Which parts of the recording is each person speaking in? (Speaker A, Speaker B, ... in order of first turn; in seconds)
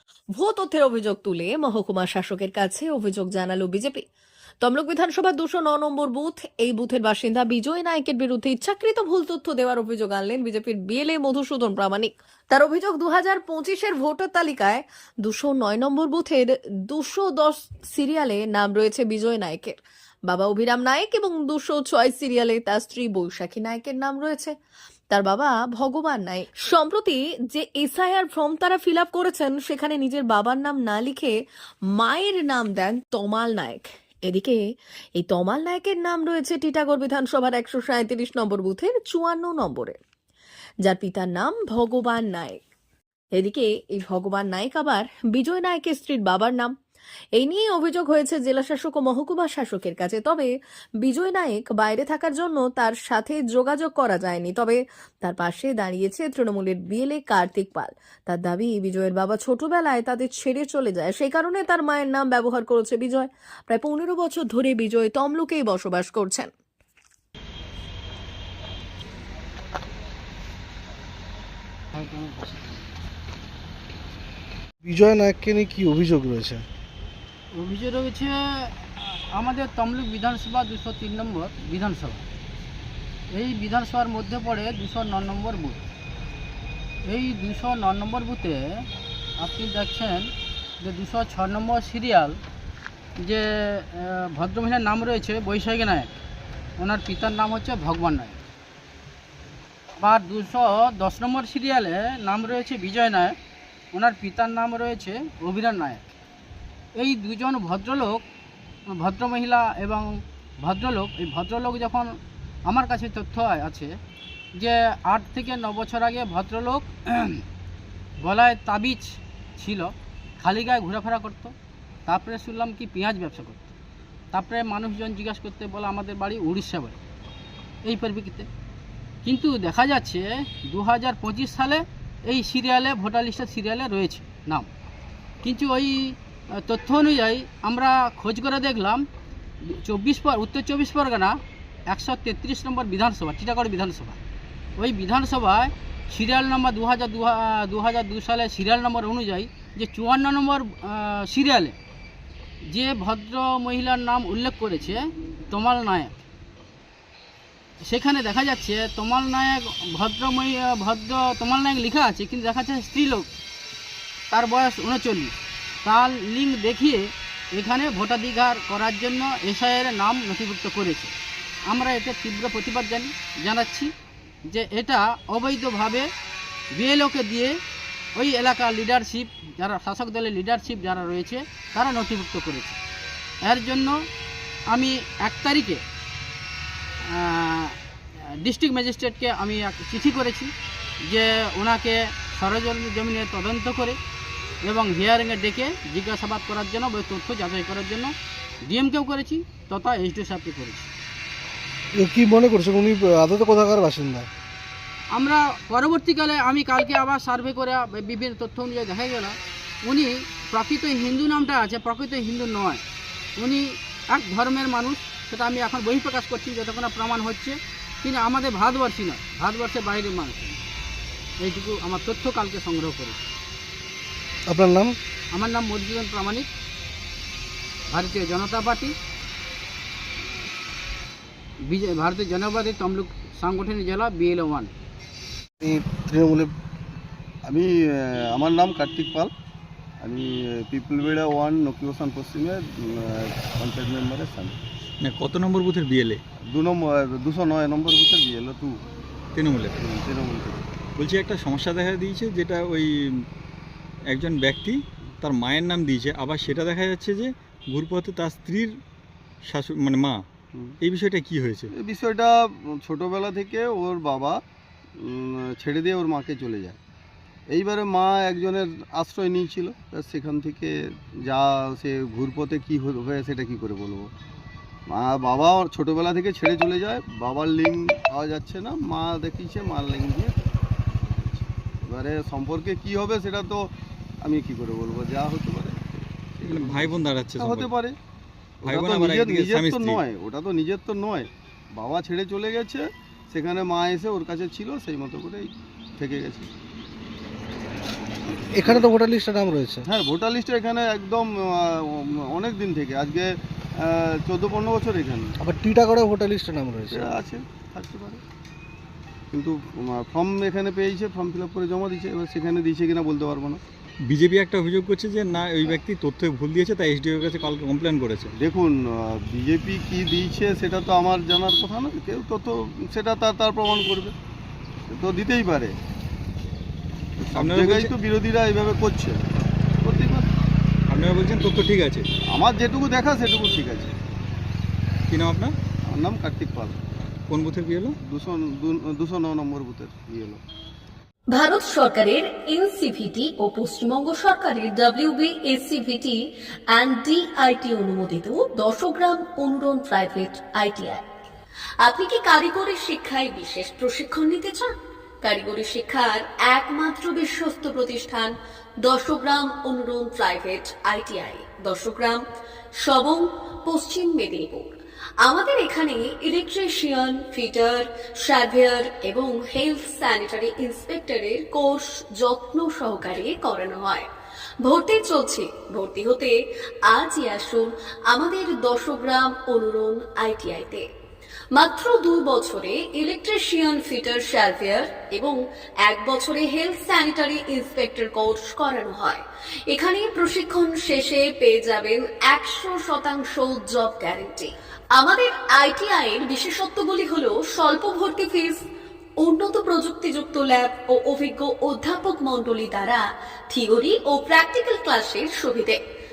Speaker A: 0.3-4.0, 4.6-19.8, 20.3-24.5, 25.1-31.3, 31.9-34.6, 35.2-40.0, 40.9-42.6, 43.4-46.7, 47.4-50.5, 51.0-66.5, 341.3-346.1, 346.7-351.0, 351.8-354.7, 355.2-358.3, 358.8-362.2, 362.8-364.7, 365.2-374.1, 374.6-376.3, 376.9-380.8, 381.6-385.3, 385.9-389.2, 389.7-398.6, 399.2-405.8
Speaker B: 72.0-72.5, 77.5-82.2, 83.3-85.8, 87.1-88.6, 89.4-90.3, 90.8-92.4, 93.2-96.1, 96.8-98.4, 100.0-103.3, 103.9-106.0, 107.0-108.2, 108.9-110.1, 110.6-112.1, 112.7-113.9, 114.6-117.4, 118.2-121.5, 122.1-123.7, 124.3-127.0, 127.8-128.5, 129.2-134.7, 135.4-136.0, 136.6-139.0, 139.7-141.3, 141.9-144.2, 144.8-151.8, 152.7-156.1, 157.8-163.3, 164.3-167.0, 167.5-171.1, 171.7-173.9, 174.5-176.1, 176.7-177.5, 178.2-182.8, 183.4-184.0, 184.7-185.8, 187.1-187.7, 188.4-190.5, 191.1-194.0, 194.6-198.1, 198.7-200.9, 205.1-212.8, 213.4-220.6, 221.4-223.2, 225.3-226.5, 227.9-228.9, 231.6-234.7
Speaker C: 74.8-76.6, 202.0-204.3, 224.5-224.9, 235.6-236.5, 298.6-299.8, 305.5-307.0
Speaker D: 237.5-239.3, 240.0-244.6, 246.5-248.8, 249.8-250.7, 261.7-264.4, 265.0-266.8, 267.5-274.1, 274.9-280.5, 281.0-287.9, 288.6-296.5, 298.3-298.9, 299.9-305.4, 306.9-308.2, 309.3-313.6, 318.4-324.1, 324.9-325.7, 327.2-329.3, 329.8-330.3, 332.3-333.9, 335.9-336.8, 338.0-340.4
Speaker E: 245.0-246.2, 249.3-249.8, 250.9-253.2, 254.1-258.7, 259.4-260.2, 260.8-261.7, 286.5-287.7, 288.6-290.0, 314.1-318.3, 327.3-327.9, 330.9-332.1, 335.1-335.5, 337.3-338.0